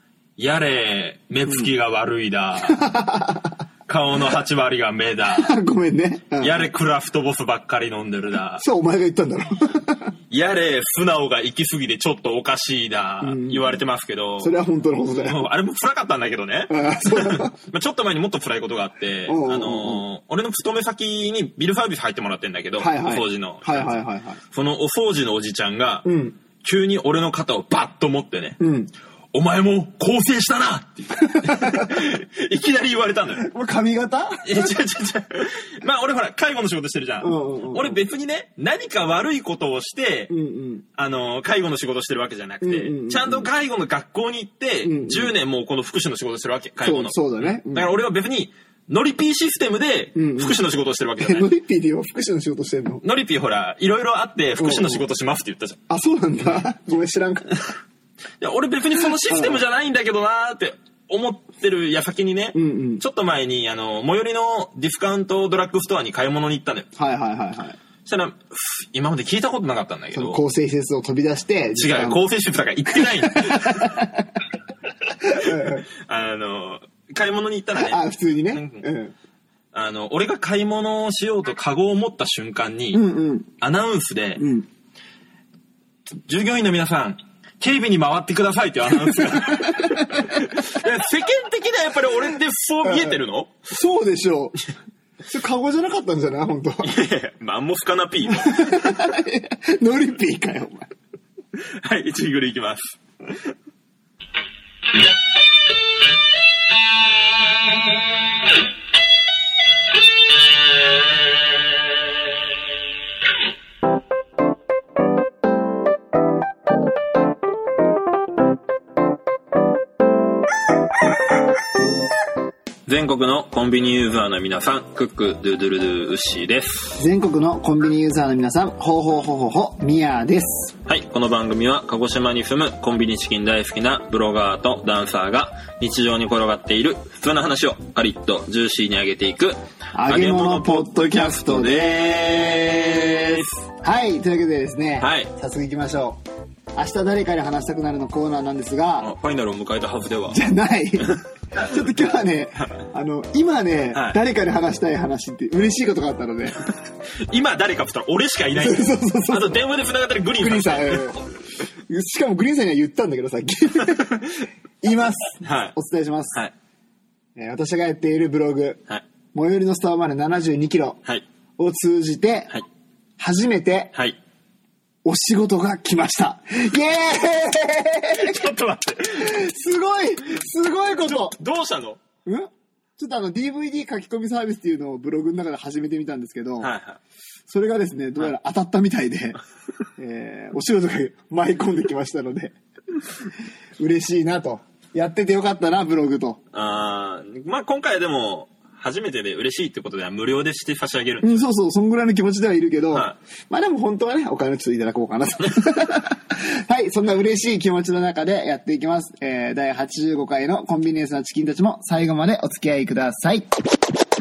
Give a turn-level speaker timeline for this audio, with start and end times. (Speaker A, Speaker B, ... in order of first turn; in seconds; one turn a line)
Speaker A: 0.4-2.8
Speaker B: 2.7-3.6
Speaker A: 3.9-5.5
Speaker B: 5.3-6.7
Speaker A: 6.4-8.6
Speaker B: 8.6-10.1
Speaker A: 10.3-14.5
Speaker B: 13.2-13.8
Speaker B: 14.4-15.4
Speaker A: 15.1-23.9
Speaker B: 16.7-17.5
Speaker B: 19.3-20.1
Speaker B: 22.8-24.4
Speaker A: 24.5-26.1
Speaker B: 26.0-26.4
Speaker A: 26.6-28.6
Speaker B: 28.6-28.9
Speaker A: 29.3-33.5
Speaker B: 31.3-32.0
Speaker B: 33.4-34.7
Speaker A: 34.4-40.3
Speaker B: 37.2-38.0
Speaker B: 40.3-40.8
Speaker A: 40.9-51.5
Speaker B: 42.6-43.5
Speaker B: 44.8-45.3
Speaker B: 46.8-47.9
Speaker B: 50.1-50.6
Speaker B: 51.2-53.0
Speaker A: 53.0-55.8
Speaker B: 54.6-55.0
Speaker B: 55.9-57.6
Speaker A: 58.4-66.9
Speaker B: 59.1-59.6
Speaker B: 62.5-63.0
Speaker B: 67.0-67.8
Speaker A: 68.0-70.4
Speaker B: 70.1-72.2
Speaker A: 71.8-74.0
Speaker B: 72.9-74.3
Speaker B: 75.2-75.8
Speaker A: 75.4-78.8
Speaker B: 77.8-79.1
Speaker A: 79.7-83.0
Speaker B: 82.9-83.5
Speaker A: 83.6-84.4
Speaker B: 84.4-84.7
Speaker A: 86.3-93.5
Speaker B: 89.2-90.4
Speaker B: 92.8-93.1
Speaker B: 93.7-94.6
Speaker B: 95.3-96.9
Speaker A: 96.8-98.9
Speaker B: 98.4-100.9
Speaker A: 101.8-103.5
Speaker A: 122.8-127.0
Speaker B: 127.0-130.7
Speaker A: 130.8-143.6
Speaker B: 139.9-142.2
Speaker B: 143.3-146.2
Speaker A: 145.0-145.3
Speaker B: 146.7-149.1
Speaker A: 149.0-150.4
Speaker B: 150.3-156.6
Speaker A: 153.9-154.2
Speaker A: 157.3-161.2
Speaker B: 158.5-159.6
Speaker B: 160.3-161.2
Speaker B: 161.9-166.4
Speaker A: 165.4-165.7
Speaker B: 167.3-171.0
Speaker B: 171.6-172.5
Speaker B: 173.2-173.9
Speaker B: 175.0-178.4
Speaker A: 178.1-179.4
Speaker B: 179.2-181.4
Speaker A: 181.0-182.0
Speaker B: 182.2-186.7
Speaker A: 186.6-187.0
Speaker B: 187.5-189.4
Speaker B: 190.0-192.5
Speaker B: 193.8-196.4
Speaker A: 196.5-201.4
Speaker B: 201.2-213.5
Speaker A: 202.9-203.2